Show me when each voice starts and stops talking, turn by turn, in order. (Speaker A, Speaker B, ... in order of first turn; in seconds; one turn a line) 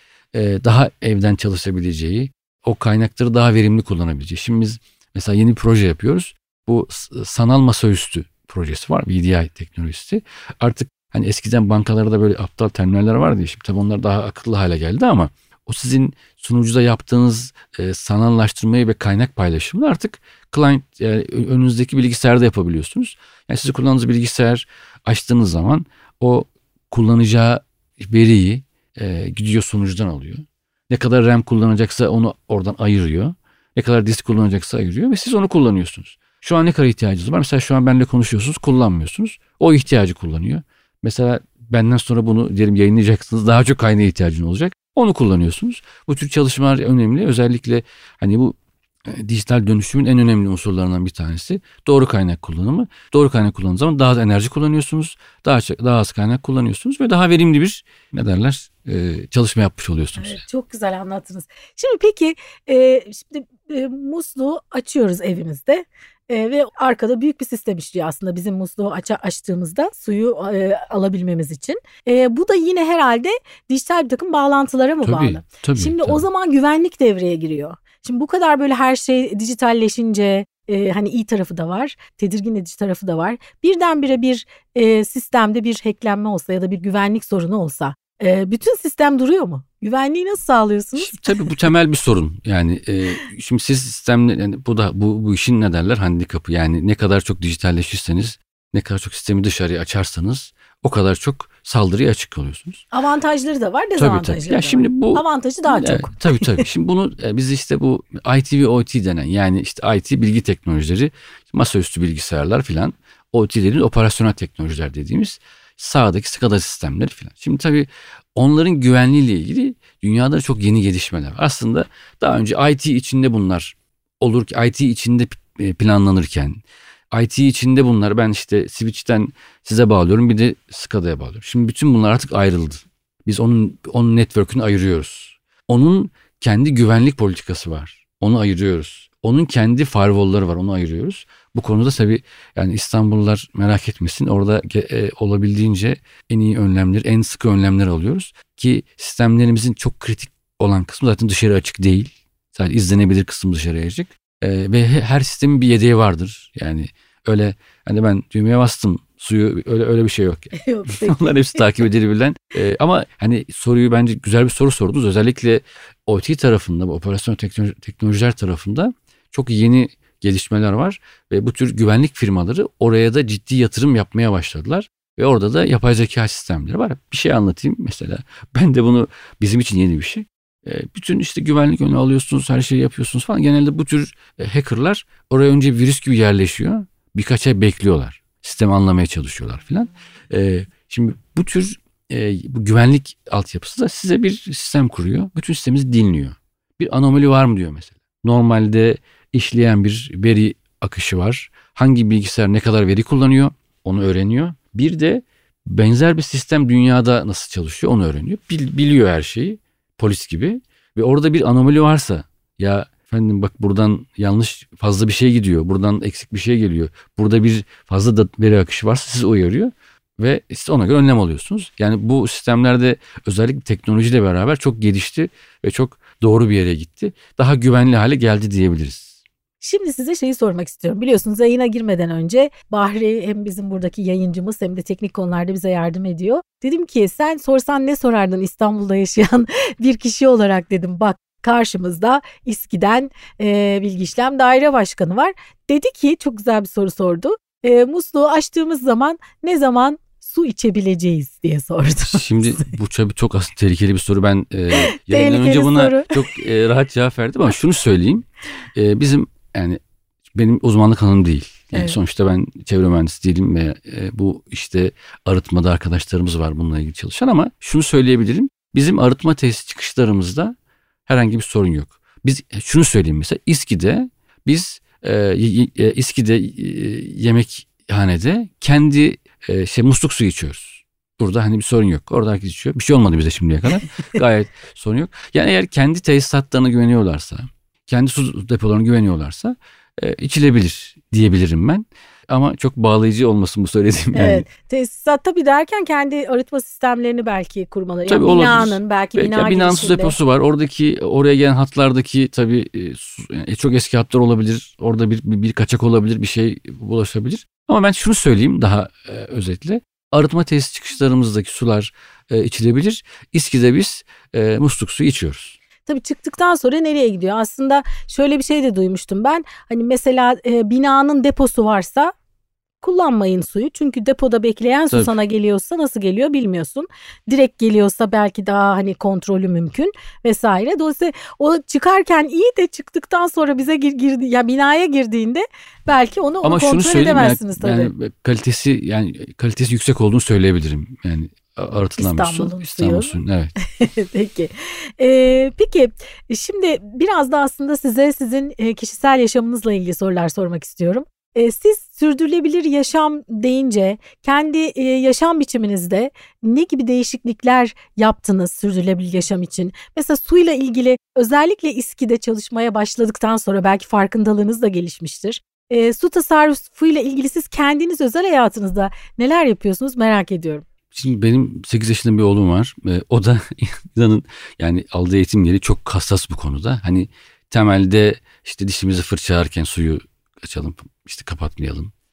Speaker A: 0.3-60.4
Speaker B: 60.1-91.4
Speaker A: 75.0-76.2
Speaker A: 91.0-102.8
Speaker B: 102.9-106.7
Speaker A: 104.0-229.1
Speaker B: 160.5-161.6
Speaker B: 229.6-252.7
Speaker A: 252.0-259.8
Speaker B: 254.7-256.4
Speaker A: 260.3-270.5
Speaker A: 271.1-294.4
Speaker B: 294.1-300.1
Speaker A: 298.1-315.6
Speaker B: 315.8-322.1
Speaker B: 322.8-337.9
Speaker A: 336.4-343.5
Speaker B: 342.0-343.2
Speaker B: 343.8-370.6
Speaker A: 370.9-381.9